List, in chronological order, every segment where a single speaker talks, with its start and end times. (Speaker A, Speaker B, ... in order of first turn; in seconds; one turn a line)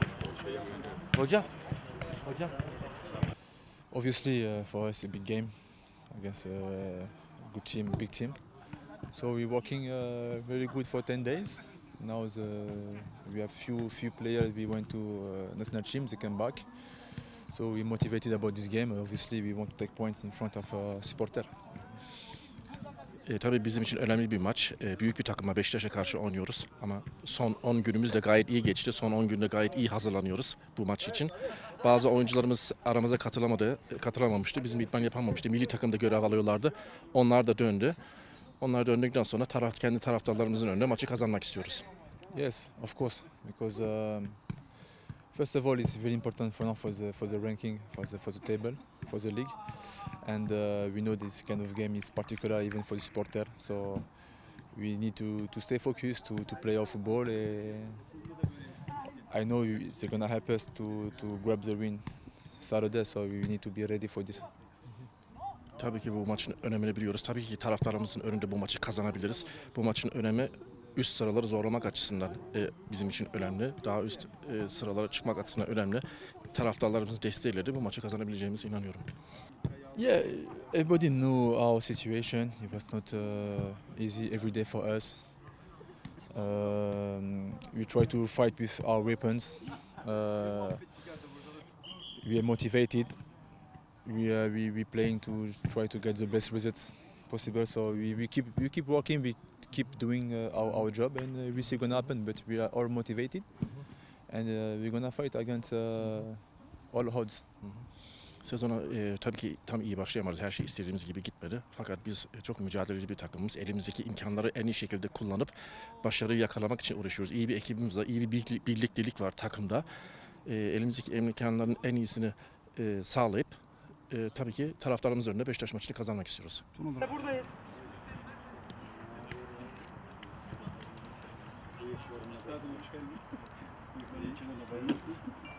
Speaker A: 1.1-1.5
Speaker A: 2.2-2.5
Speaker B: 3.9-21.5
Speaker A: 23.2-38.0
Speaker A: 38.6-41.9
Speaker B: 42.3-44.7
Speaker B: 45.3-58.0
Speaker B: 59.3-64.5
Speaker A: 65.8-79.1
Speaker B: 79.9-85.6
Speaker B: 86.3-90.9
Speaker B: 92.2-107.6
Speaker A: 107.6-126.8
Speaker C: 131.9-133.1
Speaker C: 134.1-135.1